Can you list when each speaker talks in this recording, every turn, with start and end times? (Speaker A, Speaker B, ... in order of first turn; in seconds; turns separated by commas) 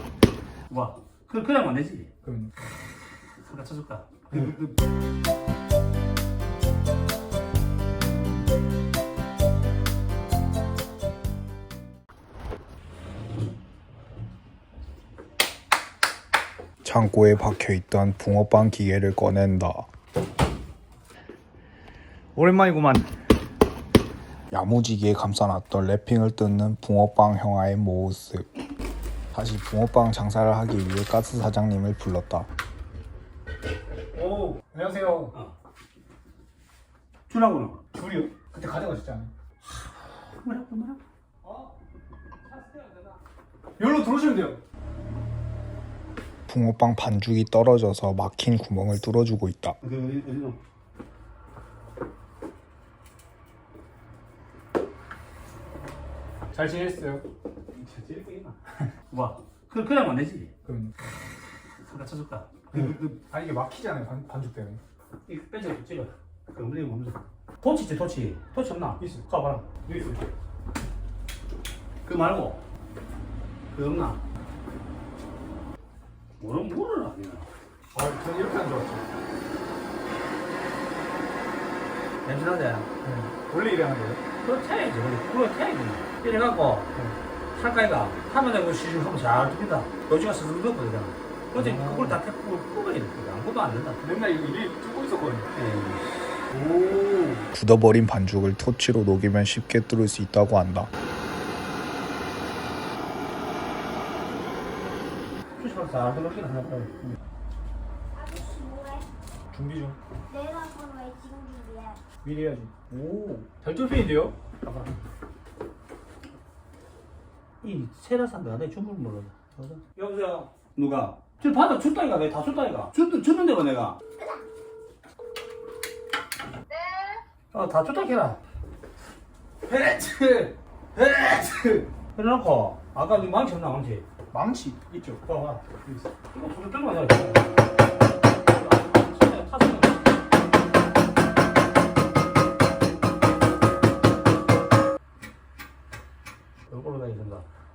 Speaker A: 0.7-2.1, Speaker A: 3.4-4.7, Speaker B: 16.8-19.9, Speaker C: 22.4-23.1, Speaker B: 24.5-28.5, Speaker B: 29.3-32.5, Speaker C: 34.1-35.3, Speaker A: 37.3-37.8, Speaker C: 38.0-39.3, Speaker A: 40.1-41.7, Speaker A: 42.5-43.2, Speaker C: 43.8-44.6, Speaker B: 46.5-49.8, Speaker A: 49.8-50.6, Speaker C: 56.5-57.2, Speaker A: 57.7-58.6, Speaker A: 59.1-60.5, Speaker C: 60.7-60.9, Speaker A: 61.8-63.1, Speaker C: 63.3-64.8, Speaker A: 65.3-69.8, Speaker A: 72.0-72.6, Speaker A: 73.7-74.2, Speaker A: 76.4-77.5, Speaker C: 77.9-79.0, Speaker A: 82.2-82.9, Speaker C: 83.1-84.2, Speaker A: 84.4-86.9, Speaker A: 87.5-94.0, Speaker C: 94.1-95.5, Speaker A: 95.5-96.1, Speaker C: 96.5-97.5, Speaker B: 97.5-100.9, Speaker A: 105.5-107.1, Speaker D: 108.2-109.1, Speaker C: 109.5-110.0, Speaker D: 110.3-112.0, Speaker C: 112.2-114.3, Speaker A: 114.6-115.0, Speaker A: 117.6-124.0, Speaker A: 127.5-128.4, Speaker A: 129.7-134.1, Speaker C: 134.3-135.1, Speaker A: 135.2-135.7, Speaker A: 136.3-137.6, Speaker A: 138.5-140.1, Speaker A: 146.7-147.5